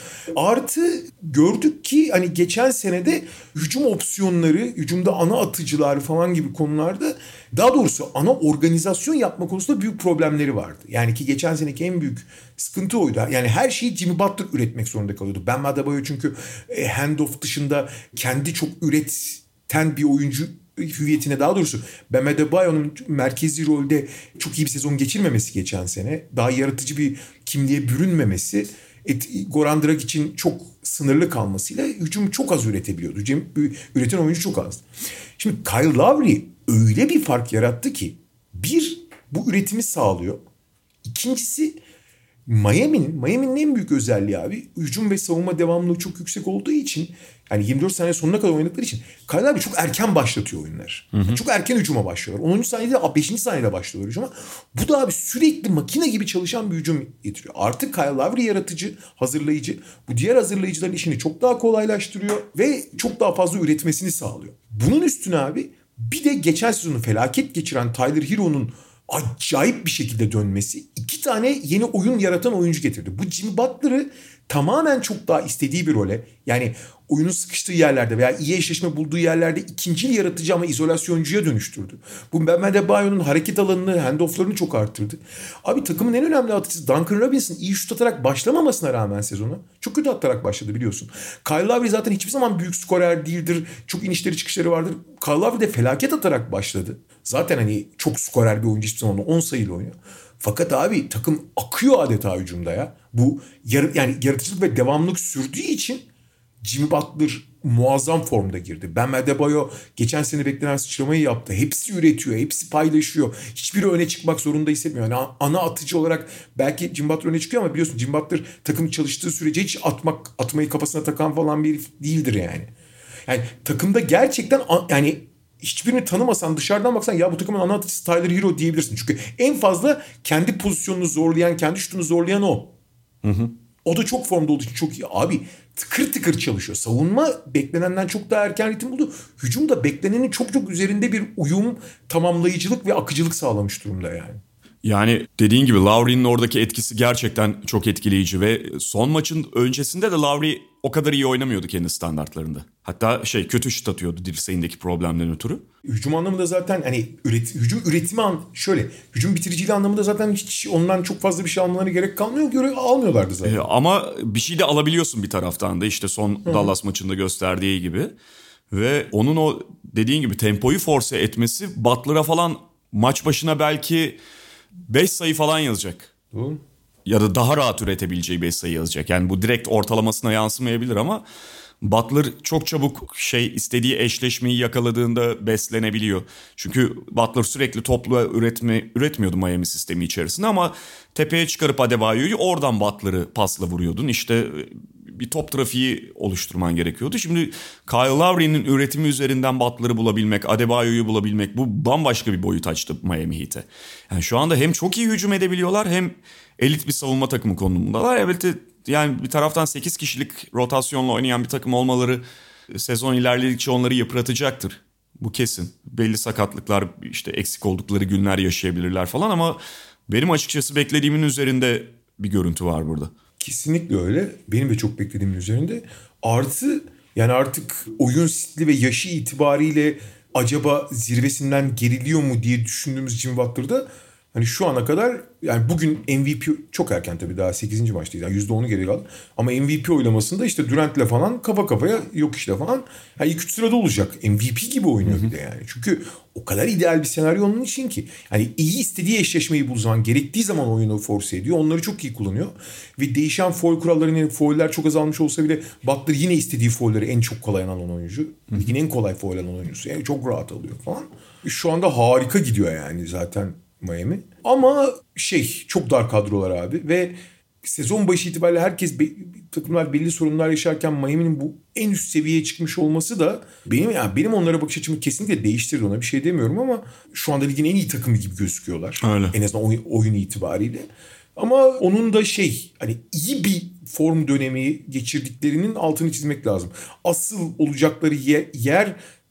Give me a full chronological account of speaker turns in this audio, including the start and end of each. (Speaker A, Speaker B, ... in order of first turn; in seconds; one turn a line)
Speaker A: 0.3-34.8
Speaker A: 35.4-40.4
Speaker A: 41.0-41.8
Speaker A: 42.5-106.0
Speaker B: 51.1-51.4
Speaker A: 106.6-122.7
Speaker A: 123.3-132.7
Speaker B: 133.2-133.5
Speaker A: 133.8-144.4
Speaker B: 144.8-155.6
Speaker A: 155.8-163.6
Speaker B: 163.4-168.1
Speaker A: 166.4-166.7
Speaker B: 168.7-174.2
Speaker B: 174.9-176.1
Speaker A: 176.3-176.6
Speaker B: 177.1-181.2
Speaker B: 181.8-223.1
Speaker A: 223.4-289.0
Speaker B: 279.0-279.4